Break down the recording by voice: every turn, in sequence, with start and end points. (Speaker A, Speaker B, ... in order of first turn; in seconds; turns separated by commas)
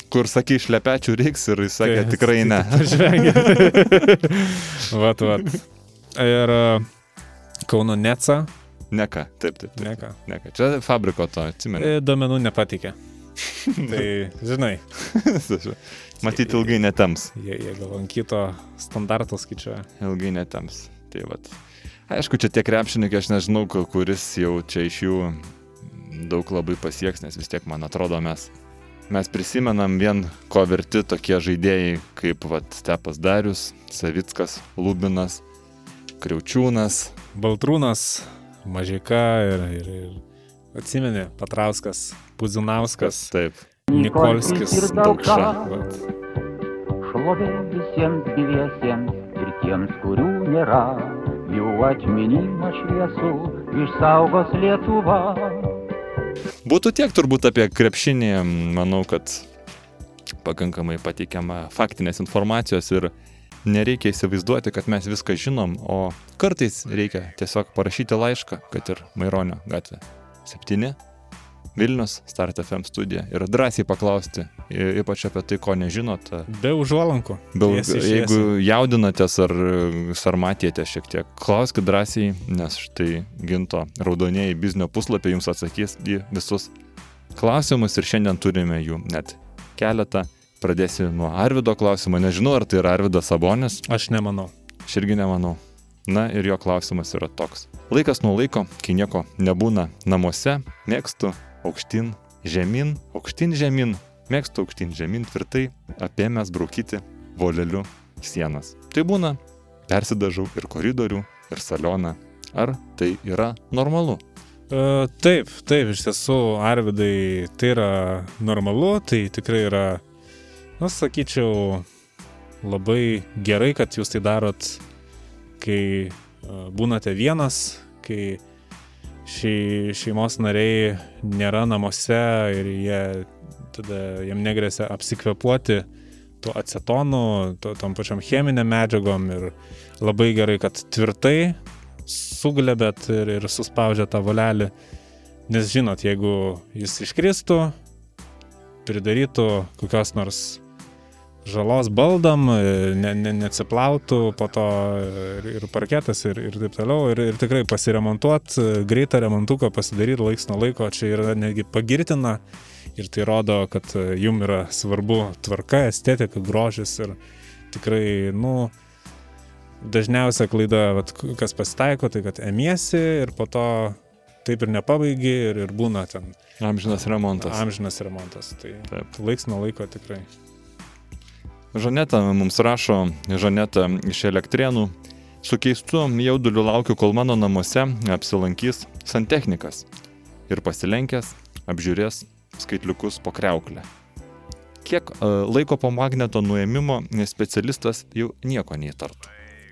Speaker A: 0.1-4.0, Speaker B: 1.8-5.6, Speaker B: 6.1-6.9, Speaker B: 7.7-8.5, Speaker A: 8.9-11.9, Speaker B: 9.8-10.2, Speaker B: 11.8-12.9, Speaker A: 13.7-14.1, Speaker B: 13.7-14.8, Speaker A: 14.9-17.3, Speaker B: 16.3-16.8, Speaker B: 17.3-19.9, Speaker A: 20.0-28.5, Speaker A: 29.1-35.4, Speaker A: 36.2-37.2, Speaker B: 37.3-40.2, Speaker B: 40.7-43.3, Speaker A: 43.0-43.6, Speaker C: 43.9-45.8, Speaker B: 43.9-46.0, Speaker A: 44.6-45.6, Speaker C: 47.0-55.8, Speaker A: 56.6-59.5, Speaker A: 60.4-71.0, Speaker A: 71.7-76.5, Speaker B: 76.5-78.5, Speaker A: 77.5-86.7, Speaker A: 87.3-93.8, Speaker B: 93.9-94.5, Speaker A: 94.9-114.2, Speaker B: 114.7-120.0, Speaker B: 120.8-121.9, Speaker B: 122.6-124.8, Speaker B: 125.6-128.4, Speaker B: 129.2-135.9, Speaker B: 136.4-144.7, Speaker B: 145.5-147.8, Speaker B: 148.9-150.6, Speaker B: 151.4-162.4, Speaker B: 162.9-167.2, Speaker B: 167.7-168.7, Speaker B: 169.8-176.4, Speaker A: 176.6-177.6, Speaker B: 177.4-180.3, Speaker A: 181.7-189.9, Speaker A: 190.5-193.9, Speaker A: 194.8-199.3